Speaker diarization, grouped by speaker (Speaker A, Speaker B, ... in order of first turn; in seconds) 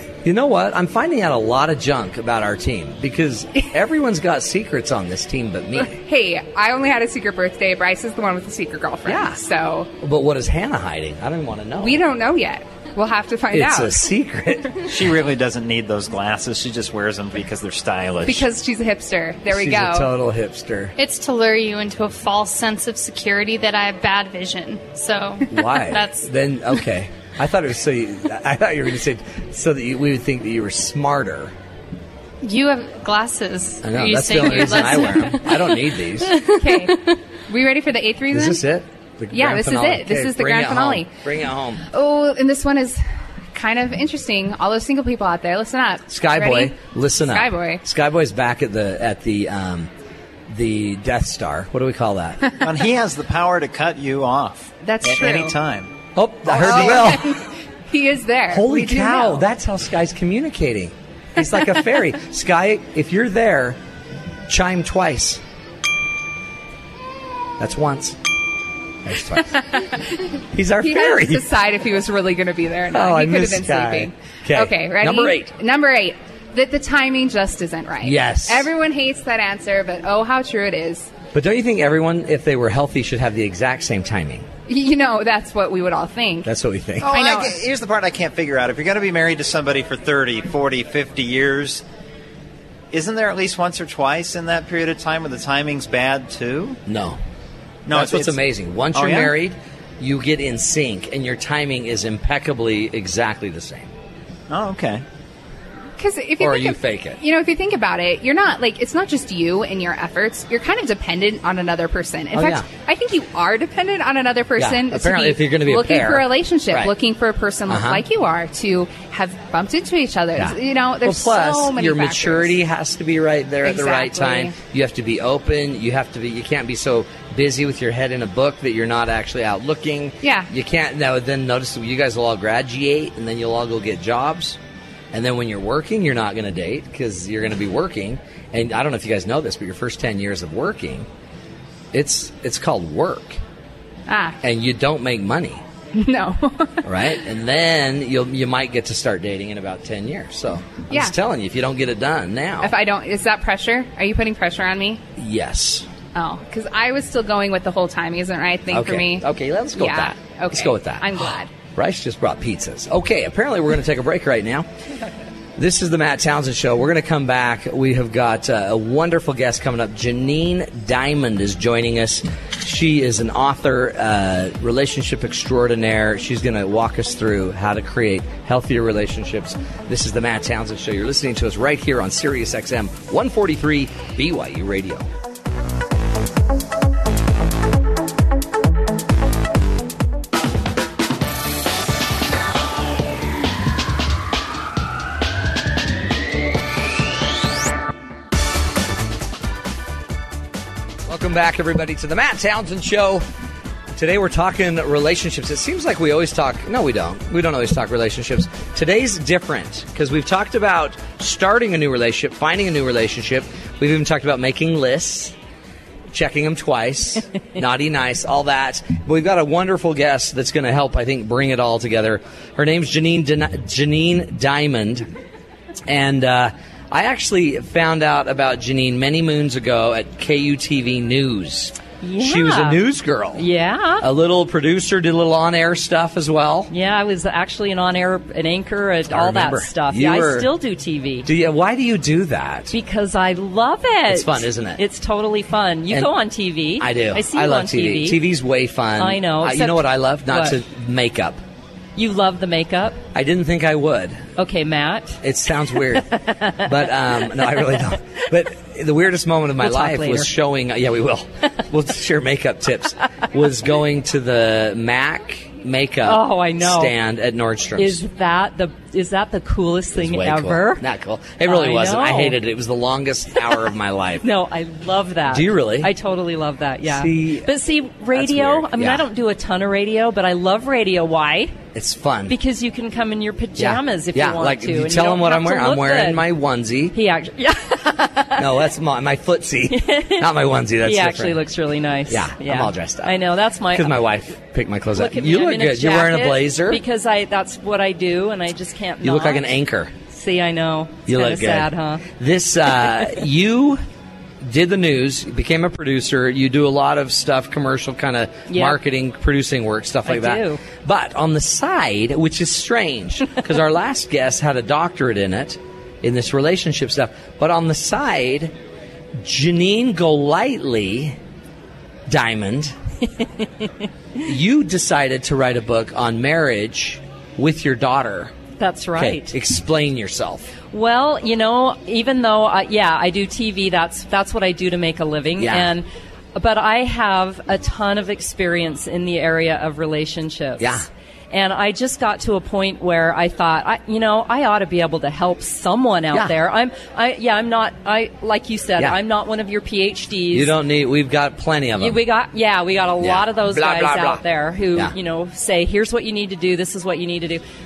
Speaker A: 0.2-5.9, 9.1-9.4, 10.0-12.0, 13.5-14.8, 19.5-20.9, 25.5-31.5, 33.8-36.4, 38.3-41.8, 46.1-49.9, 50.5-52.5, 56.1-57.4, 58.5-63.8, 64.5-65.4, 67.6-68.2, 69.0-69.6, 70.5-71.5, 72.9-75.5, 78.0-78.7, 81.3-84.5, 86.4-87.1, 96.8-97.2, 97.9-103.9, 106.4-107.2, 112.3-112.7, 114.6-116.9, 117.7-118.0, 120.3-134.6, 135.1-141.1, 141.9-143.4, 144.4-145.6, 146.8-152.7, 155.2-155.9, 158.7-164.7, 165.6-185.1, 201.0-203.2, 203.9-215.3, 216.1-225.1, 225.9-233.5, 234.0-236.7, 239.1-240.5, 241.2-242.8, 244.1-244.8, 246.8-251.4, 253.1-254.3, 255.2-268.0, 269.9-274.3, 275.3-275.9, 276.8-277.5, 278.1-279.0, 281.7-282.4, 283.6-287.0, 288.4-291.4, 292.1-293.2, 293.7-296.8, 299.0-299.9, 301.1-303.8, 304.4-318.5, 319.1-321.2, 322.1-322.7, 324.2-328.4, 329.0-330.5, 335.4-335.7, 340.6-340.9, 350.3-352.0, 353.0-354.2
Speaker B: 5.8-9.9, 11.8-14.1, 18.2-20.1, 36.5-38.6, 39.3-41.1, 41.9-43.0, 43.5-47.8, 54.8-55.5, 56.5-59.4, 69.5-81.1, 84.7-86.5, 87.1-87.6, 106.0-122.5, 123.6-124.5, 130.2-130.5, 144.1-144.4, 145.9-146.9, 152.6-155.0, 156.1-161.5
Speaker C: 14.8-18.5, 52.6-55.9, 87.0-91.8, 92.9-96.8, 97.8-98.4, 98.9-99.3, 104.5-105.0
Speaker D: 21.0-26.3, 32.4-36.9
Speaker E: 232.0-232.8, 233.3-234.1, 236.7-241.3, 242.7-248.2, 249.0-250.6, 252.0-253.0, 254.4-255.2, 255.8-257.9, 259.6-260.3, 266.0-266.9, 267.8-270.8, 271.4-272.4, 274.2-281.6, 282.3-286.2, 286.9-288.6, 289.7-290.3, 290.8-294.1, 294.9-299.4, 300.1-302.1, 308.5-308.8, 310.0-310.6, 328.6-329.3, 330.7-350.5, 351.8-357.4